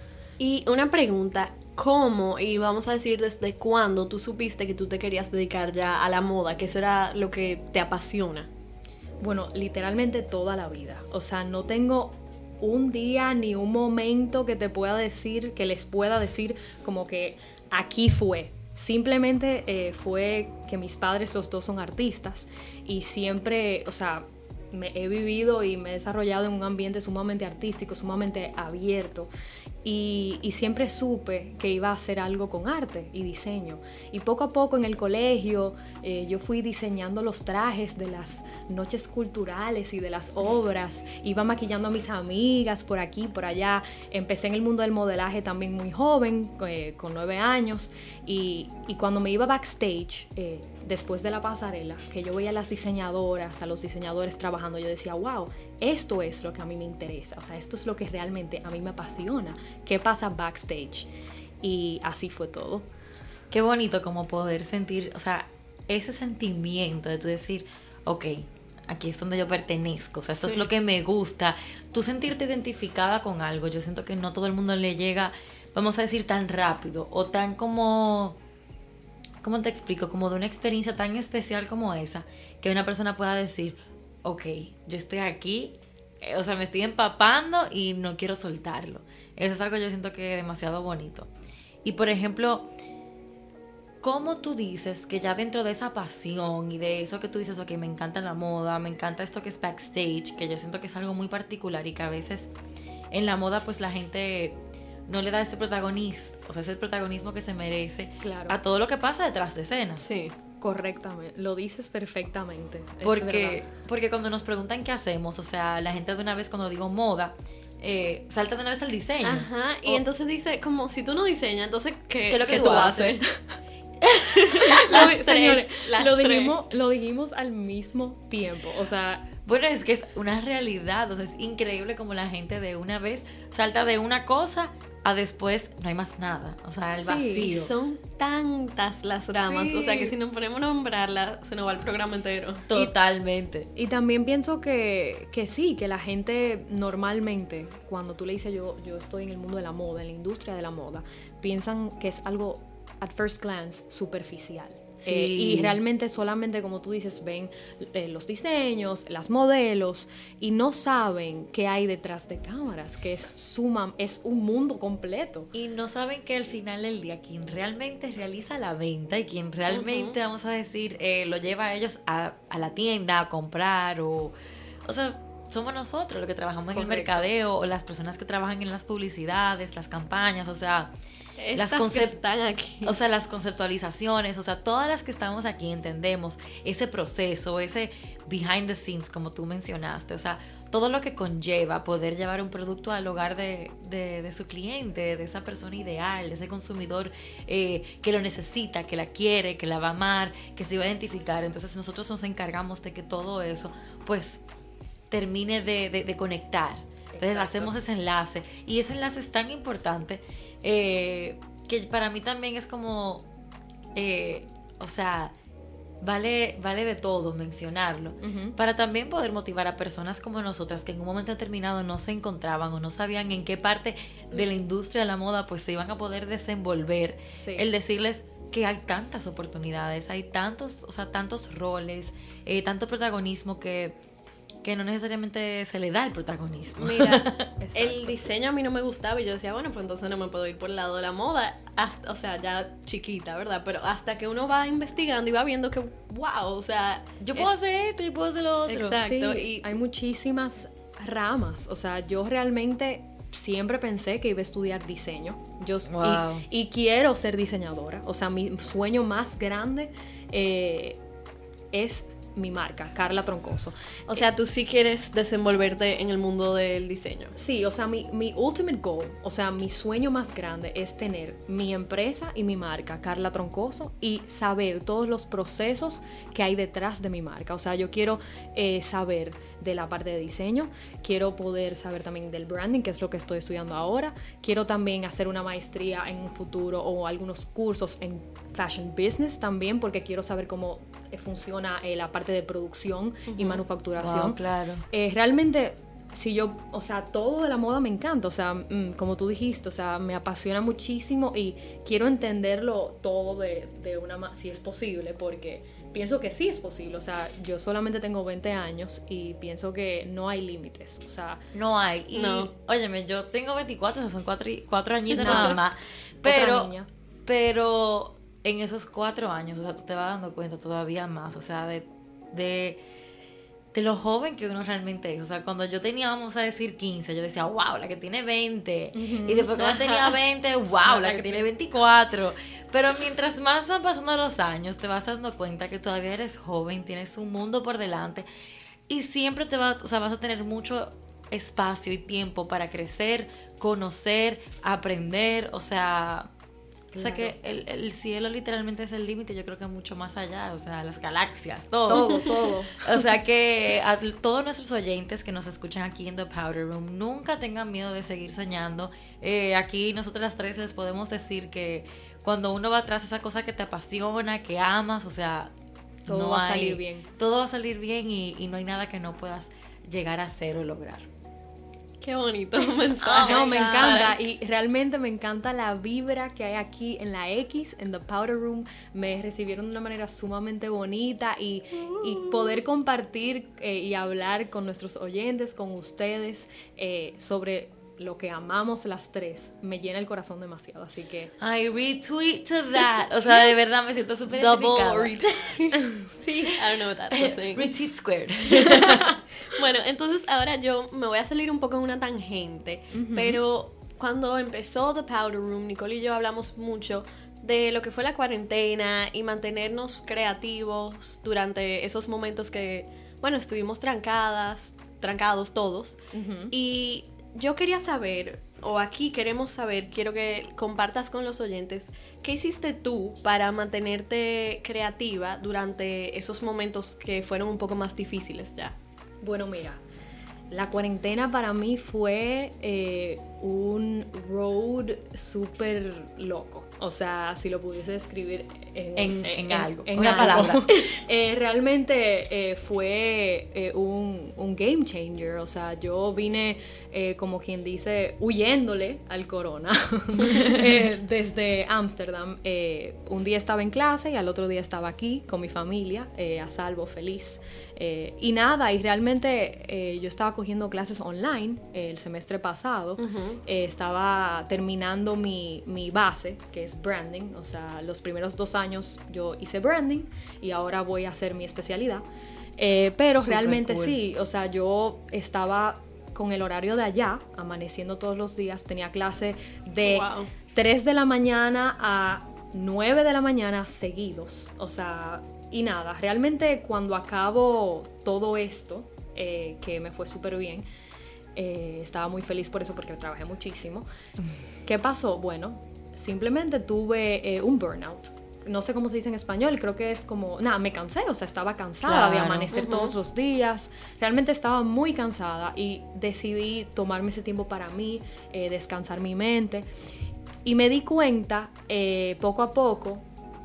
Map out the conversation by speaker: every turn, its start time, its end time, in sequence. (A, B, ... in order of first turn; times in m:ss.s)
0:00.4-0:08.5 A
0:09.2-0:29.3 B
0:29.8-1:01.1 B
1:01.6-1:02.9 B
1:03.5-1:18.4 C
1:19.4-1:31.3 C
1:31.8-1:32.7 C
1:34.0-1:42.5 C
1:43.1-1:44.6 C
1:45.1-1:50.0 C
1:48.2-1:48.6 B
1:50.0-1:50.4 A
1:50.6-1:53.6 B
1:53.0-2:00.0 C
1:59.2-2:03.2 A
2:02.3-2:03.2 C
2:04.1-2:06.6 A
2:04.6-2:09.3 B
2:09.4-2:17.7 C
2:17.0-2:17.6 B
2:17.4-2:22.7 A
2:19.4-2:20.1 C
2:22.7-2:23.7 C
2:23.8-2:45.5 B
2:35.0-2:35.8 C
2:45.5-3:00.9 C
2:49.7-2:50.2 A
2:56.7-2:57.3 B
3:01.4-3:03.0 A
3:01.6-3:02.2 C
3:02.8-3:24.4 C
3:25.1-3:33.3 C
3:27.1-3:27.8 B
3:34.0-3:35.3 C
3:36.0-3:54.0 C
3:38.2-3:38.6 B
3:47.4-3:47.7 B
3:54.6-3:57.4 C
3:56.8-4:07.6 A
3:57.6-3:58.2 B
4:07.2-4:09.0 C
4:08.7-4:09.7 A
4:09.0-4:21.0 B
4:15.9-4:16.5 C
4:21.7-4:23.8 B
4:24.1-4:27.4 A
4:27.4-5:11.4 B
4:53.3-4:53.6 A
4:54.0-4:54.8 C
5:11.5-5:16.7 C
5:12.1-5:12.5 A
5:15.2-5:15.6 A
5:15.2-5:15.6 B
5:16.2-5:16.9 B
5:17.3-5:22.8 C
5:23.7-5:38.3 C
5:28.9-5:29.5 B
5:29.6-5:30.2 A
5:30.8-5:31.5 B
5:38.9-5:46.3 C
5:46.9-5:47.3 B
5:46.9-6:05.5 C
5:51.9-5:52.9 B
6:06.1-6:11.1 C
6:06.1-6:07.1 B
6:12.0-6:14.2 A
6:13.0-6:14.0 C
6:13.2-6:31.3 B
6:22.1-6:22.5 A
6:31.4-6:35.3 C
6:34.3-6:35.8 A
6:36.2-6:36.5 B
6:36.5-6:37.7 A
6:37.1-6:39.2 C
6:39.5-6:56.0 A
6:42.9-6:43.4 B
6:56.1-6:56.5 B
6:56.5-7:08.8 A
7:09.2-7:09.8 B
7:10.5-7:52.0 B
7:19.0-7:20.7 C
7:43.0-7:43.4 A
7:52.6-8:10.6 B
7:53.2-7:54.0 C
7:59.8-8:00.3 A
8:11.4-8:13.9 B
8:14.6-8:29.7 B
8:21.8-8:22.5 C
8:22.5-8:22.9 A
8:30.4-8:33.0 B